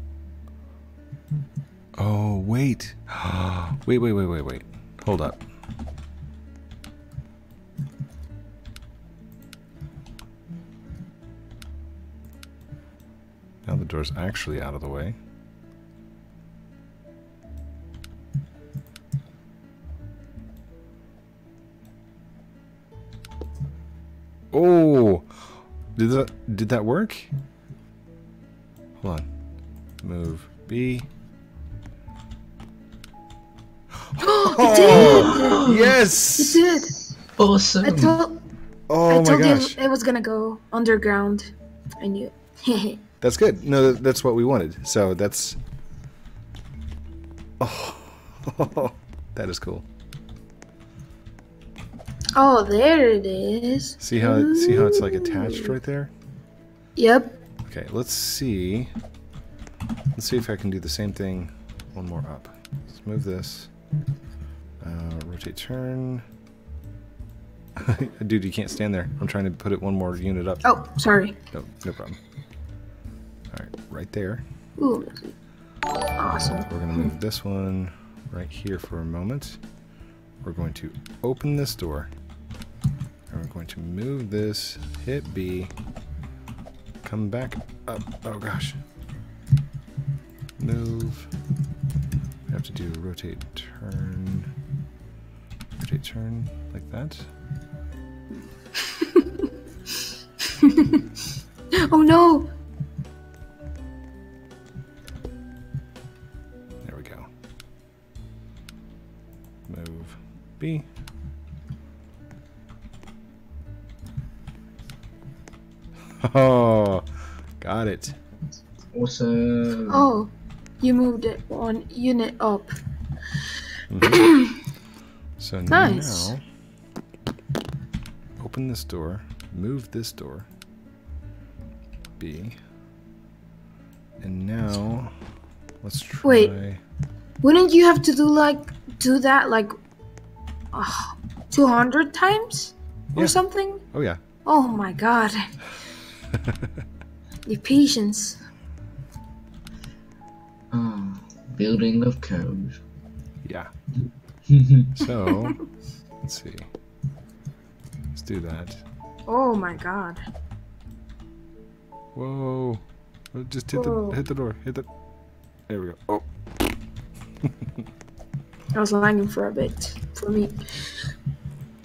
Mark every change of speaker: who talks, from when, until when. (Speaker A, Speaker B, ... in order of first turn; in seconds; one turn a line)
Speaker A: 2.0-5.4
Speaker A: 13.6-15.2
Speaker A: 24.5-27.3
Speaker A: 29.0-29.3
Speaker A: 30.0-31.1
Speaker A: 34.1-36.6
Speaker B: 34.2-35.8
Speaker C: 34.8-35.9
Speaker B: 36.4-36.9
Speaker C: 37.4-38.2
Speaker B: 37.8-38.4
Speaker A: 38.9-39.8
Speaker B: 39.1-43.0
Speaker A: 43.2-45.6
Speaker A: 47.6-49.9
Speaker B: 52.4-55.7
Speaker A: 54.0-56.1
Speaker B: 57.0-57.4
Speaker A: 57.6-58.9
Speaker A: 60.1-63.7
Speaker A: 64.8-66.2
Speaker A: 67.8-70.6
Speaker B: 70.6-71.3
Speaker A: 71.5-72.2
Speaker A: 73.5-74.4
Speaker B: 74.8-75.3
Speaker B: 76.2-77.1
Speaker A: 76.2-79.6
Speaker A: 80.4-82.1
Speaker A: 83.3-85.7
Speaker A: 87.0-88.8
Speaker A: 90.6-91.3
Speaker A: 92.5-94.5
Speaker A: 95.8-97.3
Speaker B: 98.9-99.3
Speaker B: 100.5-101.0
Speaker B: 101.7-102.5
Speaker A: 106.8-107.3
Speaker A: 109.7-110.9
Speaker A: 116.2-117.1
Speaker A: 117.6-118.2
Speaker C: 118.9-120.1
Speaker B: 119.9-122.7
Speaker A: 123.9-124.3
Speaker B: 124.0-124.5
Speaker A: 125.4-126.4
Speaker B: 125.7-126.3
Speaker A: 128.4-130.5
Speaker A: 132.2-132.6
Speaker A: 134.2-135.1
Speaker A: 135.8-136.8
Speaker B: 136.2-136.5
Speaker B: 137.4-139.7
Speaker B: 140.7-143.8
Speaker A: 143.1-143.4
Speaker A: 143.9-144.2
Speaker B: 144.4-145.5
Speaker A: 146.3-146.8
Speaker B: 147.4-148.4
Speaker C: 150.7-152.8
Speaker A: 153.4-153.7
Speaker C: 154.5-154.9
Speaker A: 154.9-155.6
Speaker A: 156.2-156.7
Speaker A: 158.1-158.8
Speaker B: 159.3-160.2
Speaker A: 162.1-164.9
Speaker B: 163.7-164.2
Speaker A: 165.7-166.7
Speaker B: 168.7-170.6